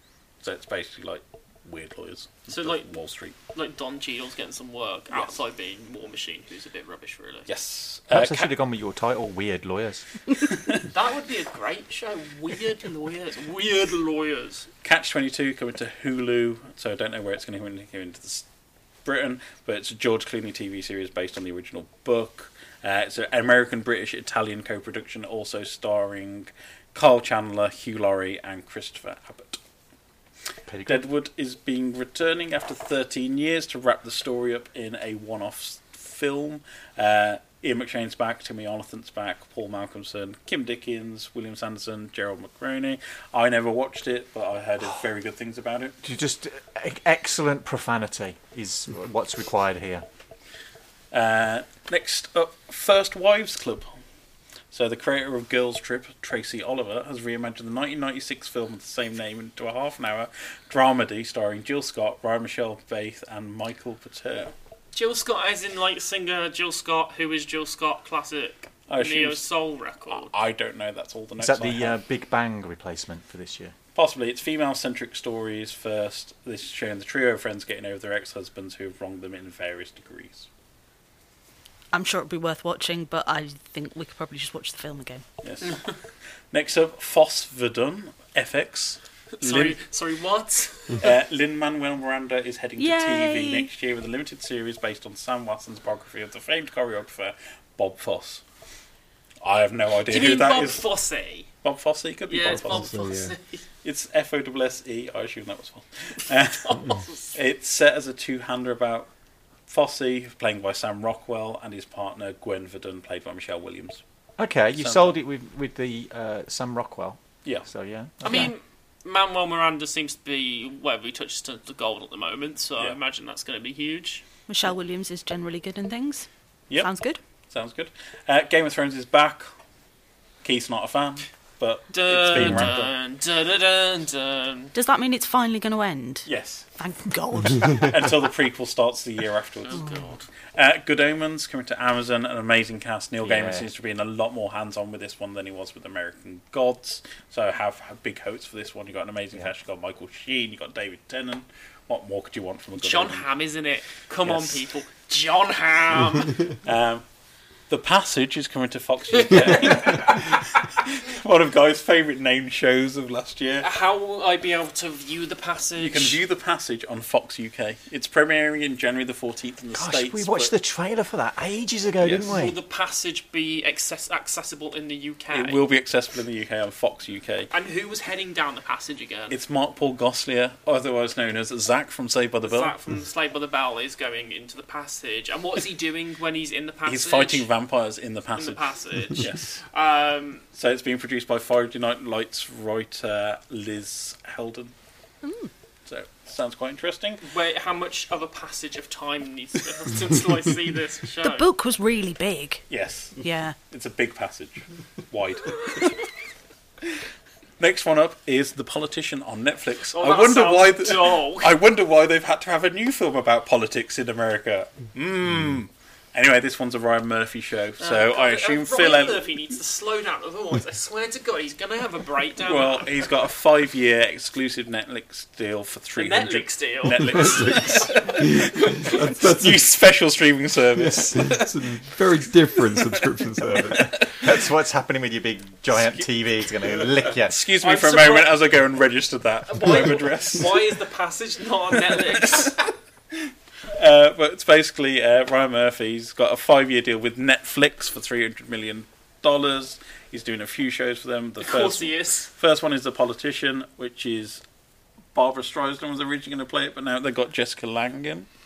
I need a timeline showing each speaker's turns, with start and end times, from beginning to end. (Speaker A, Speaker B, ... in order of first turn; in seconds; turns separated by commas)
Speaker A: 0.4-3.4, Speaker B: 2.5-2.9, Speaker B: 3.4-7.5, Speaker A: 7.5-8.5, Speaker C: 8.1-10.1, Speaker B: 10.9-14.7, Speaker A: 14.8-18.5, Speaker A: 19.1-29.6, Speaker C: 30.7-31.1, Speaker A: 30.9-46.0, Speaker C: 46.0-50.1, Speaker A: 51.1-53.9, Speaker A: 54.7-64.5, Speaker B: 64.9-70.3, Speaker A: 68.9-69.4, Speaker A: 70.1-72.0, Speaker C: 71.4-73.8, Speaker A: 74.0-80.5, Speaker D: 81.9-85.2, Speaker A: 85.4-85.8, Speaker B: 85.6-85.9, Speaker A: 86.5-89.8, Speaker B: 89.4-91.1, Speaker A: 91.0-98.4, Speaker D: 92.8-93.7, Speaker A: 99.4-100.8, Speaker B: 100.1-101.5, Speaker A: 101.6-102.9, Speaker B: 102.3-103.6, Speaker E: 102.4-103.4, Speaker A: 103.8-106.8, Speaker B: 106.6-107.4, Speaker A: 107.3-109.1, Speaker A: 109.7-114.0, Speaker C: 114.4-118.5, Speaker A: 114.7-115.2, Speaker B: 118.2-124.2, Speaker D: 124.5-126.3, Speaker D: 126.8-127.2, Speaker A: 127.5-129.5, Speaker A: 130.4-132.9, Speaker B: 131.9-134.7, Speaker D: 134.7-137.9, Speaker A: 136.3-136.7, Speaker A: 137.8-140.0, Speaker B: 139.7-140.3, Speaker A: 140.6-153.3, Speaker C: 143.2-143.7, Speaker B: 152.8-156.4, Speaker A: 154.2-154.6, Speaker A: 156.6-157.0, Speaker A: 157.7-163.7, Speaker B: 159.1-160.3, Speaker B: 163.6-166.2, Speaker A: 165.8-170.5, Speaker C: 169.8-172.6, Speaker A: 172.0-172.3, Speaker B: 172.2-175.6, Speaker A: 175.3-177.5, Speaker B: 177.5-179.4, Speaker A: 179.3-182.8, Speaker B: 182.4-187.5, Speaker A: 186.9-189.6, Speaker B: 188.4-190.4, Speaker A: 190.6-194.7, Speaker D: 195.2-195.5, Speaker A: 195.9-197.2, Speaker B: 197.2-201.5, Speaker D: 201.2-202.6, Speaker A: 202.7-206.0, Speaker D: 203.2-203.6, Speaker A: 207.6-219.3, Speaker B: 209.9-211.6, Speaker B: 217.8-222.9, Speaker A: 222.4-231.6, Speaker B: 226.0-228.1, Speaker E: 227.1-227.7, Speaker E: 228.2-229.7, Speaker B: 228.6-229.0, Speaker E: 230.8-234.1, Speaker A: 233.6-234.2, Speaker C: 234.1-237.4, Speaker A: 235.8-236.1, Speaker A: 237.1-240.8, Speaker B: 237.6-238.4, Speaker B: 239.5-242.6, Speaker A: 241.9-242.6, Speaker A: 243.7-254.4, Speaker B: 251.4-252.3, Speaker A: 255.1-258.3